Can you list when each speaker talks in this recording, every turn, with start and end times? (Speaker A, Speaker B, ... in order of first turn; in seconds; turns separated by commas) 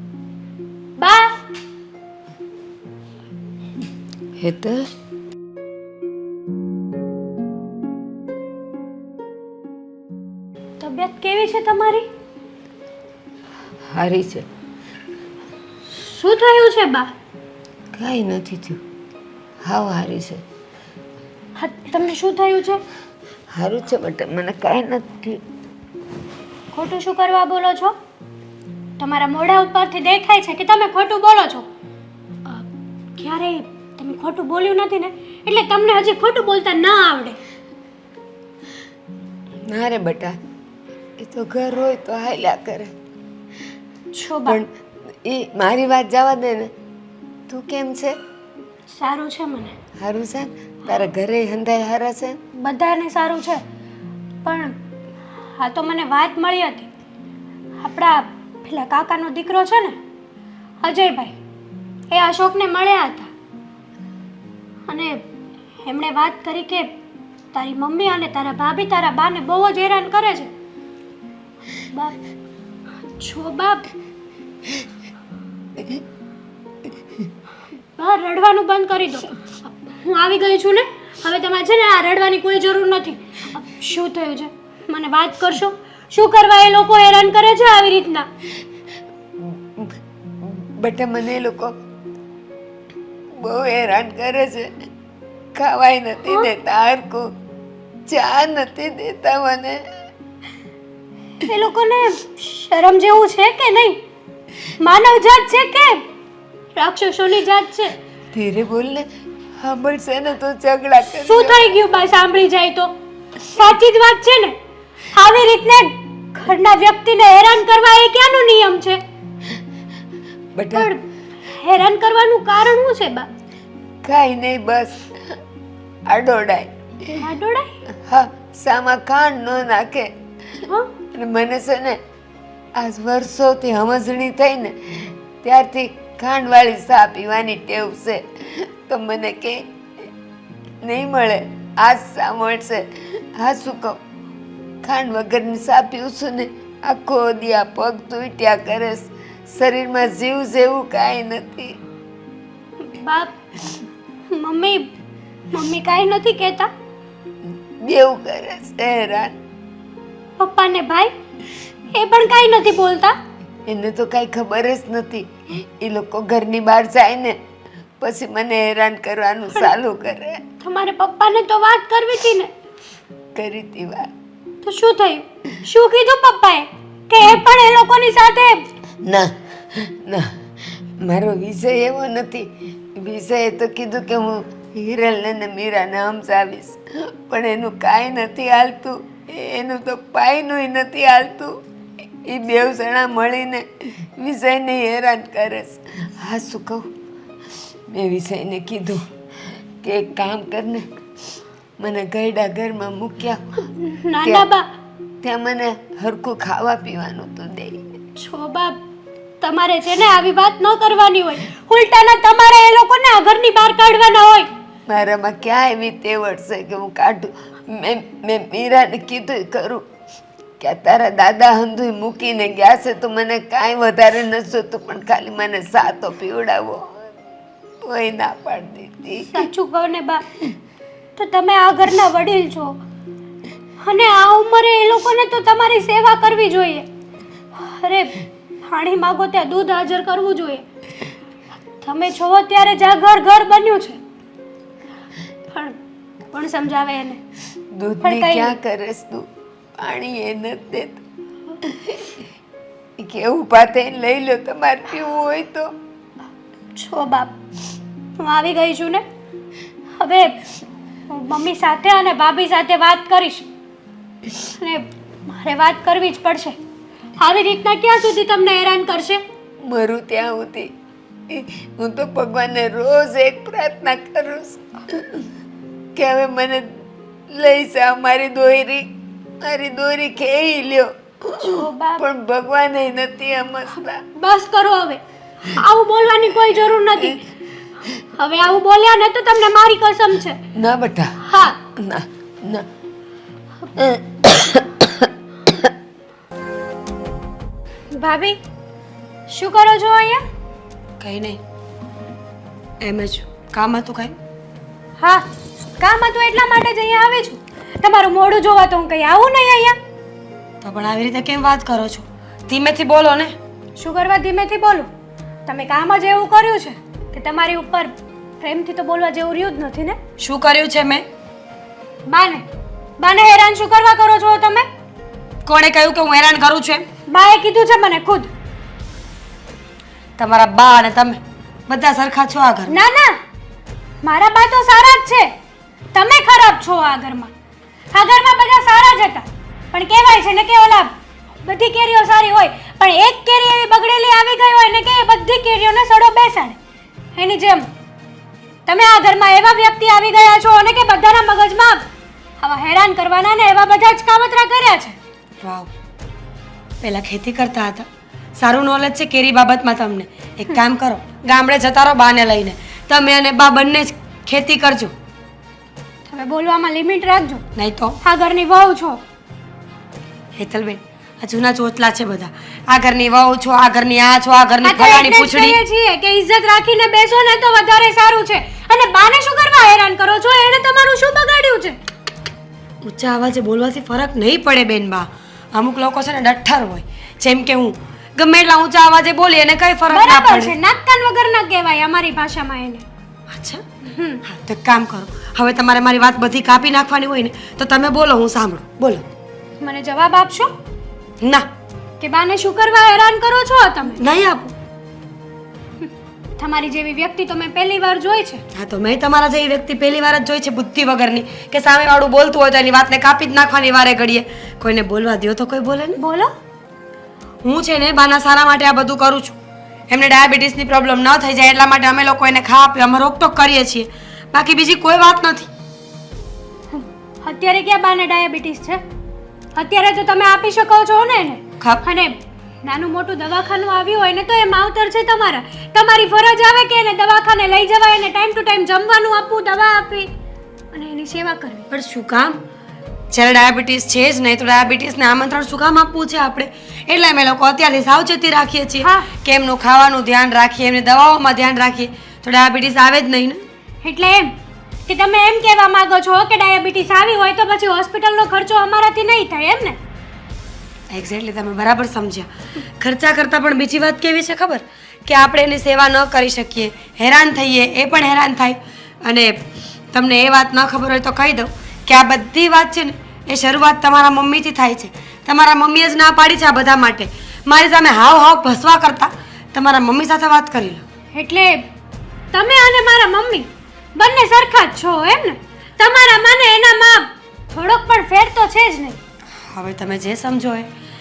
Speaker A: 1.0-1.4, Speaker B: 4.4-4.9, Speaker A: 10.8-12.1, Speaker B: 13.9-14.4, Speaker A: 15.9-17.1, Speaker B: 18.0-18.8, Speaker B: 19.6-20.4, Speaker A: 21.6-22.8, Speaker B: 23.5-25.4, Speaker A: 26.7-27.9, Speaker A: 29.0-31.7, Speaker A: 33.2-37.4, Speaker B: 39.7-40.4, Speaker B: 41.2-42.9, Speaker A: 44.1-44.6, Speaker B: 45.2-46.7, Speaker B: 47.5-48.2, Speaker A: 48.9-49.7, Speaker B: 50.0-52.4, Speaker A: 52.6-53.6, Speaker A: 54.4-54.8, Speaker A: 55.6-56.9, Speaker A: 57.8-60.0, Speaker A: 60.8-61.4, Speaker A: 62.1-63.3, Speaker A: 64.9-65.2, Speaker A: 65.8-66.9, Speaker A: 67.5-70.5, Speaker A: 71.9-72.2, Speaker A: 73.2-73.9, Speaker A: 78.0-88.3, Speaker B: 90.5-91.7, Speaker B: 93.4-94.7, Speaker B: 95.5-97.3, Speaker B: 98.1-99.8, Speaker A: 101.4-104.0, Speaker A: 104.8-106.0, Speaker A: 106.8-108.0, Speaker B: 108.3-109.0, Speaker B: 109.6-111.7, Speaker A: 111.2-114.5, Speaker A: 115.1-119.0, Speaker B: 120.6-120.9, Speaker A: 120.7-123.3, Speaker B: 124.0-125.1, Speaker B: 126.1-126.7, Speaker A: 127.2-127.7, Speaker B: 128.1-130.1, Speaker A: 130.7-130.9, Speaker B: 131.2-132.0, Speaker B: 132.8-139.6, Speaker B: 140.8-142.8, Speaker B: 143.4-144.0, Speaker B: 144.8-151.8, Speaker A: 152.8-153.3, Speaker A: 154.3-154.9, Speaker A: 155.5-156.7, Speaker B: 157.8-159.3, Speaker A: 160.4-161.1, Speaker A: 161.9-163.2, Speaker B: 163.7-167.4, Speaker B: 168.0-170.4, Speaker A: 170.6-172.5, Speaker B: 173.3-174.1, Speaker A: 174.6-178.7, Speaker B: 179.1-180.3, Speaker B: 181.1-191.5, Speaker B: 192.3-196.9, Speaker B: 197.9-199.1, Speaker B: 199.8-200.8, Speaker B: 201.8-203.4, Speaker A: 203.6-204.7, Speaker B: 204.2-204.5, Speaker B: 205.2-207.8, Speaker A: 208.2-208.8, Speaker A: 209.4-214.5, Speaker B: 214.9-219.8, Speaker B: 220.6-227.1, Speaker B: 227.8-229.4, Speaker A: 229.3-230.2, Speaker A: 231.2-232.8, Speaker A: 233.8-236.9, Speaker A: 237.6-240.6, Speaker A: 241.8-244.0, Speaker A: 245.5-245.8, Speaker A: 246.3-247.2, Speaker B: 247.8-249.3, Speaker A: 248.0-248.6, Speaker B: 249.8-251.0, Speaker B: 251.7-252.0, Speaker B: 253.0-255.7, Speaker A: 256.8-257.3, Speaker A: 258.2-259.0, Speaker A: 260.0-260.4, Speaker A: 261.1-263.5, Speaker A: 264.4-266.6, Speaker A: 267.2-269.2, Speaker B: 269.6-270.7, Speaker B: 271.3-275.2, Speaker B: 275.9-276.7, Speaker B: 277.3-278.9, Speaker B: 279.4-284.0, Speaker A: 281.4-282.1, Speaker A: 284.2-287.2, Speaker A: 288.2-290.4, Speaker B: 290.6-291.2, Speaker A: 291.2-291.6, Speaker B: 291.8-292.7, Speaker B: 293.8-294.9, Speaker A: 297.9-298.4, Speaker A: 299.3-300.2, Speaker C: 301.0-301.4, Speaker C: 302.8-304.1, Speaker A: 305.0-305.2, Speaker A: 305.8-309.8, Speaker C: 310.6-313.4, Speaker A: 313.8-314.9, Speaker A: 315.5-320.0, Speaker C: 320.2-321.1, Speaker A: 322.1-322.4, Speaker A: 323.0-324.7, Speaker C: 325.4-326.9, Speaker A: 327.1-328.3, Speaker C: 330.2-332.8, Speaker A: 332.7-333.2, Speaker A: 334.0-335.3, Speaker A: 335.9-337.3, Speaker A: 337.9-346.6, Speaker A: 347.1-347.7, Speaker A: 348.7-351.9, Speaker A: 352.4-355.0, Speaker C: 355.4-355.7, Speaker C: 356.8-364.9, Speaker A: 366.1-367.4, Speaker C: 367.6-368.0, Speaker A: 368.0-369.0, Speaker C: 370.4-375.6, Speaker A: 374.6-381.8, Speaker C: 382.9-390.5, Speaker A: 389.9-392.8, Speaker C: 393.3-393.6, Speaker A: 393.9-394.2, Speaker C: 394.3-399.0, Speaker A: 399.6-400.5, Speaker C: 401.2-401.5, Speaker A: 402.0-404.0, Speaker C: 404.0-404.5, Speaker A: 405.8-408.4, Speaker C: 408.5-416.0, Speaker A: 416.0-416.3, Speaker C: 417.4-419.4, Speaker C: 419.9-425.5, Speaker A: 426.7-428.8, Speaker A: 429.6-440.1, Speaker A: 440.7-441.7, Speaker C: 441.7-442.4, Speaker C: 443.1-453.4, Speaker A: 448.8-449.1, Speaker A: 453.8-454.3, Speaker A: 454.9-459.8, Speaker C: 460.9-462.3, Speaker C: 462.8-469.4, Speaker C: 469.9-480.8, Speaker A: 481.1-481.6, Speaker A: 482.3-489.0, Speaker C: 489.5-490.7